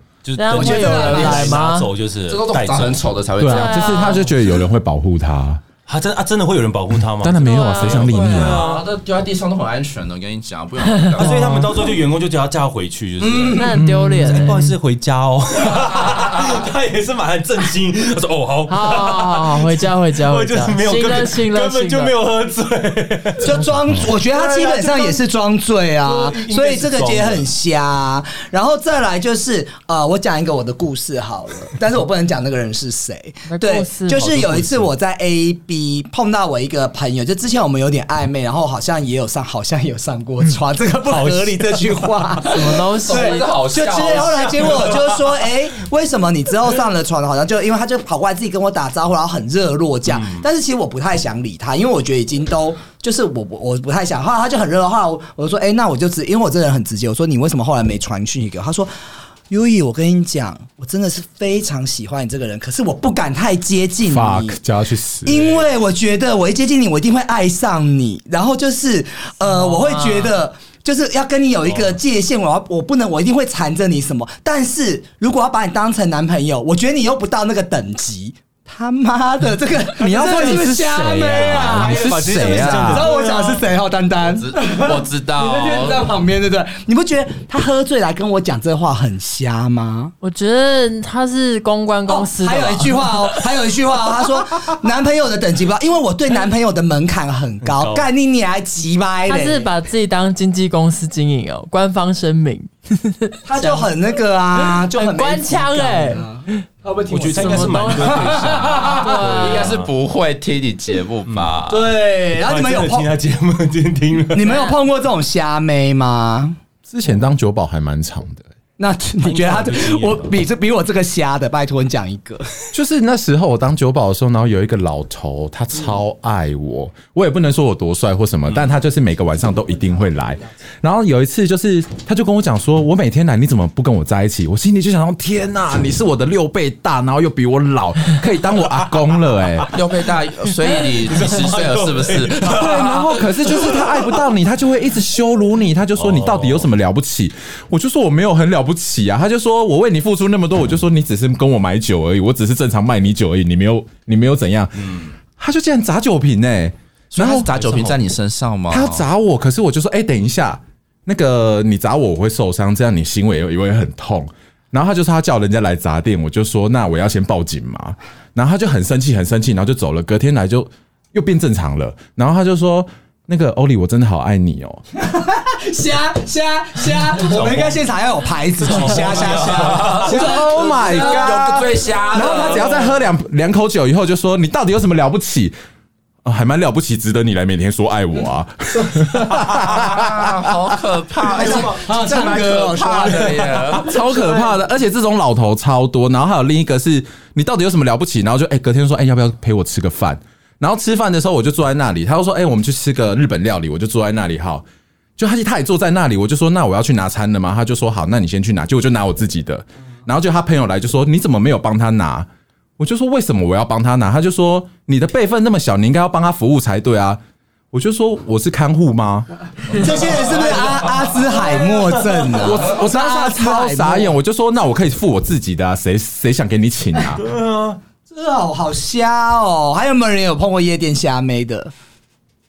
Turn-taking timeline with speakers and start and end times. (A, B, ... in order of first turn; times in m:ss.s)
0:00.2-0:03.1 A
0:00.4-0:01.9 B
0:00.5-0:01.6 C
0:02.3-0:04.2 D
0:03.4-0:05.6 E
0:03.4-0:04.3 B
0:05.9-0:08.9 A
0:07.2-0:08.7 E
0:07.4-0:08.0 B
0:07.9-0:11.8 D
0:10.8-0:11.6 B
0:11.2-0:25.2 A
0:13.2-0:13.7 C
0:13.6-0:14.7 B
0:13.7-0:14.7 E
0:16.0-0:16.5 D
0:18.7-0:22.1 B
0:23.4-0:58.9 C
0:26.0-0:27.5 A
0:33.5-0:34.4 B
0:34.2-0:34.9 A
0:41.1-0:42.3 A
0:42.5-0:43.6 B
0:42.6-0:44.9 D
0:44.0-0:45.4 A
0:50.1-0:50.4 A
0:59.5-1:04.6 C
1:04.1-1:05.6 E
1:05.2-1:30.1 C
1:09.5-1:10.4 B
1:11.7-1:12.0 A
1:20.0-1:23.1 E
1:20.0-1:20.7 A
1:21.5-1:23.6 A
1:24.2-1:26.1 D
1:30.2-1:33.4 B
1:32.1-1:39.7 C
1:37.6-1:38.1 A
1:39.3-1:43.9 B
1:43.4-1:49.0 C
1:44.7-1:46.6 B
1:47.1-1:49.9 A
1:47.2-1:49.8 B
1:48.6-1:51.8 D
1:51.3-1:51.5 A
1:51.7-1:53.1 C
1:52.4-1:54.5 A
1:54.3-1:56.6 C
1:54.4-1:54.8 B
1:56.9-1:58.5 E
1:58.8-2:02.5 C
1:59.2-2:00.3 A
2:02.7-2:19.7 E
2:19.7-2:23.2 D
2:20.6-2:23.0 A
2:22.5-2:37.6 E
2:26.0-2:26.7 A
2:34.8-2:35.1 A
2:37.1-2:39.0 D
2:37.5-2:38.1 A
2:38.7-2:54.8 E
2:55.0-3:02.9 C
2:57.1-2:57.8 A
2:58.6-3:00.2 A
2:59.1-3:02.8 D
3:00.0-3:05.6 E
3:06.2-3:11.2 E
3:09.2-3:14.6 D
3:11.2-3:12.2 A
3:11.3-3:13.7 C
3:13.6-3:14.2 A
3:13.7-3:24.6 E
3:25.2-3:37.2 E
3:37.7-3:39.3 E
3:39.7-3:44.2 C
3:40.1-3:40.8 A
3:42.3-3:47.2 E
3:47.2-3:47.8 A
3:48.1-3:51.7 C